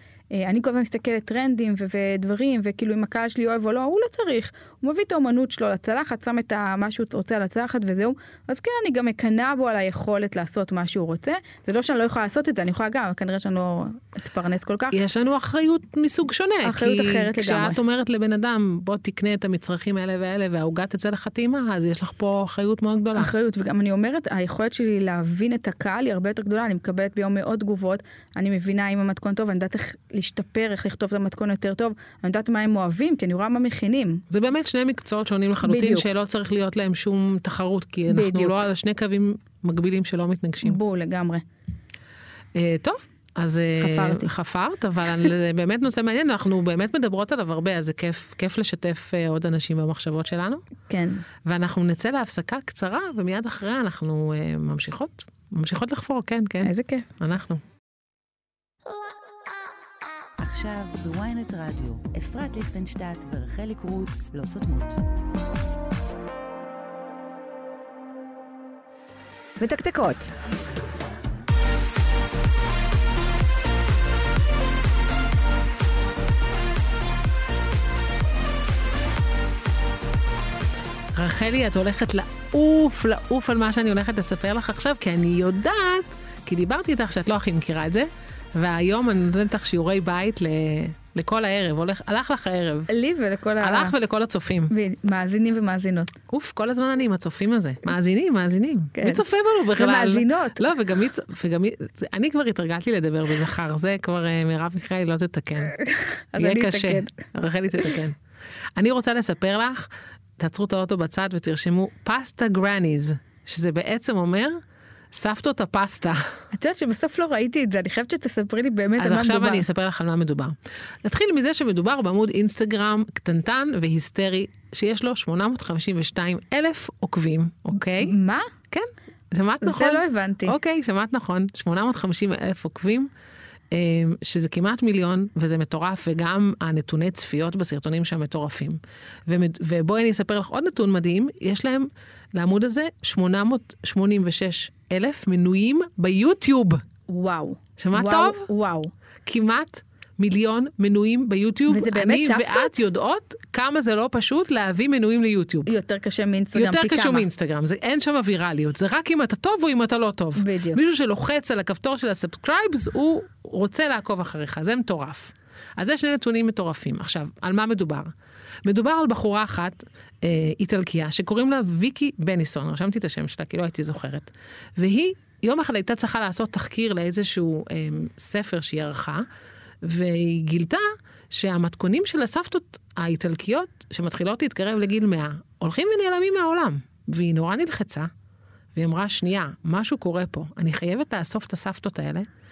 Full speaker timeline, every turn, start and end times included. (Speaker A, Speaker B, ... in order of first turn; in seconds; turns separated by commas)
Speaker A: 0.3-15.0, Speaker B: 14.9-23.3, Speaker A: 16.6-17.8, Speaker A: 23.1-34.2, Speaker B: 34.3-40.8, Speaker A: 35.6-36.1, Speaker A: 38.1-38.6, Speaker A: 40.6-41.4, Speaker B: 42.5-50.6, Speaker A: 43.8-44.3, Speaker A: 50.9-51.2, Speaker B: 51.5-57.6, Speaker A: 56.6-57.1, Speaker C: 60.4-65.0, Speaker C: 69.6-70.3, Speaker B: 81.2-92.9, Speaker A: 92.9-94.0, Speaker B: 93.6-94.7, Speaker A: 94.7-96.2, Speaker B: 96.3-105.8, Speaker A: 99.0-99.2, Speaker A: 99.8-100.7, Speaker A: 106.3-107.2, Speaker B: 106.4-108.2, Speaker B: 108.8-114.6, Speaker B: 115.1-116.2, Speaker A: 116.5-119.7, Speaker B: 119.0-128.1, Speaker A: 128.0-128.5, Speaker B: 128.7-133.1, Speaker A: 129.6-130.6, Speaker B: 133.7-146.8, Speaker A: 147.1-148.9, Speaker B: 147.8-148.5, Speaker B: 149.2-155.7, Speaker A: 151.7-152.8, Speaker A: 155.7-157.3, Speaker B: 156.5-168.1, Speaker A: 160.4-160.8, Speaker B: 168.7-179.2, Speaker B: 179.8-188.1, Speaker B: 188.8-192.3